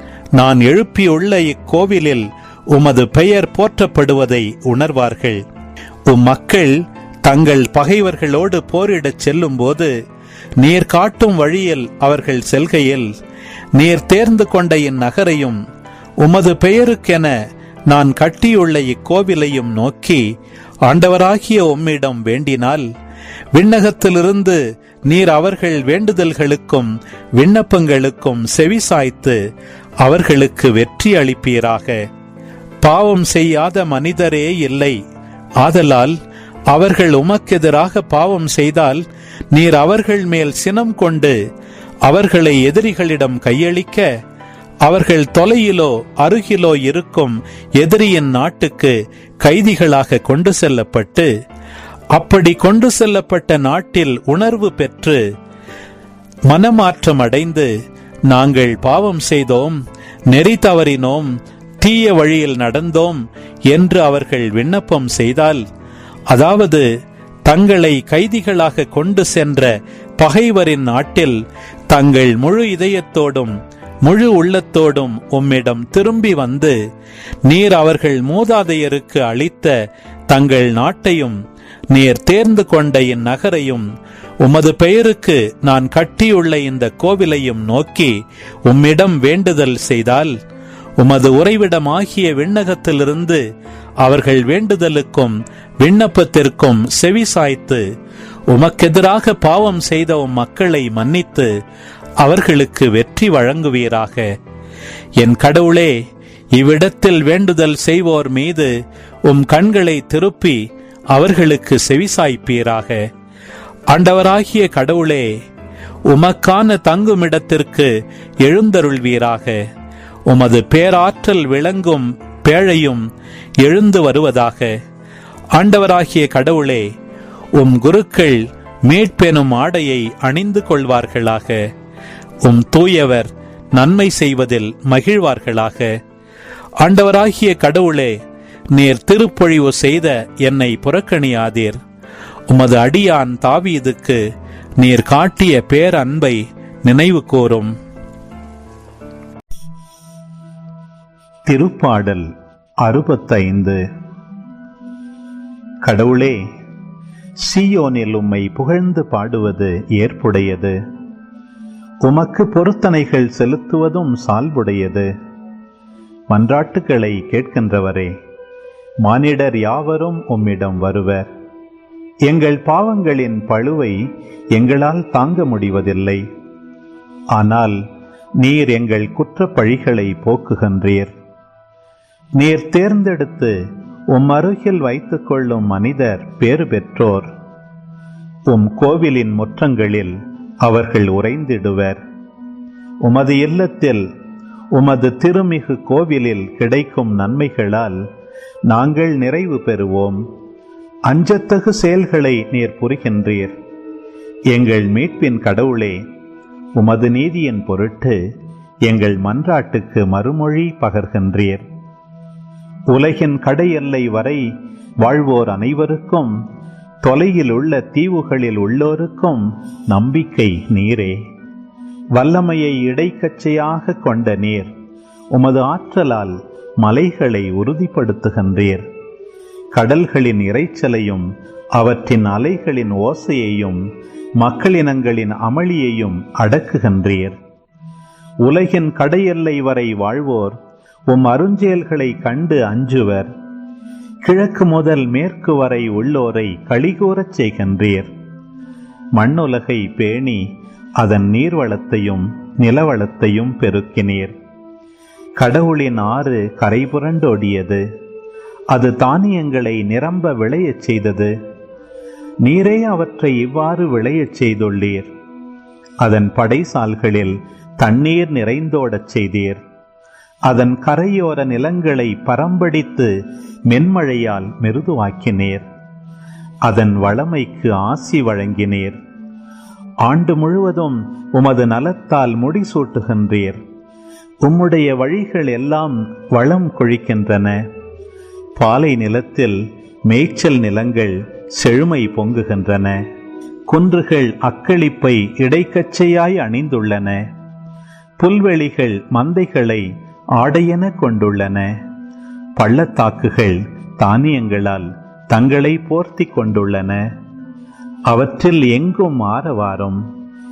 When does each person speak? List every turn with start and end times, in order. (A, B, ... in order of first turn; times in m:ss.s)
0:00.4-0:05.4 A
0:06.1-0:09.9 A
0:10.6-0:13.1 A
0:13.8-0:15.6 A
0:16.2-0:17.4 A
0:17.9-0:20.2 A
0:20.8-0:22.9 A
0:23.5-0:29.4 A
0:30.0-0:32.0 A
0:32.8-0:35.0 A
0:35.6-0:36.2 A
0:36.7-0:41.4 A
0:42.0-0:44.1 A
0:44.8-0:51.3 A
0:52.1-0:55.2 A
0:56.5-0:57.7 A
0:58.3-1:05.6 A
1:06.3-1:06.9 A
1:07.5-1:16.8 A
1:17.5-1:19.7 A
1:20.3-1:21.4 A
1:21.9-1:23.9 A
1:24.4-1:28.1 A
1:28.6-1:30.3 A
1:31.0-1:33.4 A
1:34.0-1:37.8 A
1:38.5-1:41.5 A
1:42.2-1:44.3 A
1:45.2-1:45.9 A
1:46.6-1:48.7 A
1:49.3-1:53.1 A
1:53.9-1:55.4 A
1:56.1-1:59.6 A
2:00.3-2:03.1 A
2:03.6-2:04.8 A
2:05.5-2:06.9 A
2:07.6-2:11.6 A
2:12.4-2:16.0 A
2:16.8-2:18.2 A
2:18.7-2:21.8 A
2:22.5-2:24.2 A
2:24.8-2:27.7 A
2:31.5-2:32.3 A
2:32.8-2:33.8 A
2:35.8-2:36.4 A
2:37.4-2:40.8 A
2:42.0-2:45.1 A
2:46.3-2:48.1 A
2:49.0-2:51.3 A
2:52.3-2:54.0 A
2:54.5-2:56.2 A
2:57.3-2:57.8 A
2:58.4-3:01.1 A
3:02.4-3:03.6 A
3:04.1-3:07.3 A
3:08.5-3:12.0 A
3:13.0-3:14.0 A
3:14.7-3:18.0 A
3:18.7-3:20.2 A
3:21.1-3:23.5 A
3:24.5-3:26.0 A
3:26.8-3:28.2 A
3:28.8-3:31.6 A
3:32.9-3:34.4 A
3:35.0-3:36.4 A
3:37.0-3:41.2 A
3:42.1-3:44.7 A
3:45.3-3:48.8 A
3:49.7-3:53.8 A
3:54.4-3:57.4 A
3:58.4-4:00.6 A
4:01.1-4:03.3 A
4:04.2-4:08.1 A
4:09.2-4:10.4 A
4:11.0-4:14.3 A
4:15.4-4:17.8 A
4:18.7-4:21.3 A
4:22.4-4:25.1 A
4:26.0-4:29.6 A
4:30.5-4:33.1 A
4:33.7-4:35.6 A
4:36.6-4:39.0 A
4:40.0-4:43.6 A
4:44.4-4:47.6 A
4:48.6-4:53.0 A
4:53.7-4:57.2 A
4:58.2-4:59.8 A
5:00.4-5:01.8 A
5:02.6-5:07.1 A
5:08.1-5:10.0 A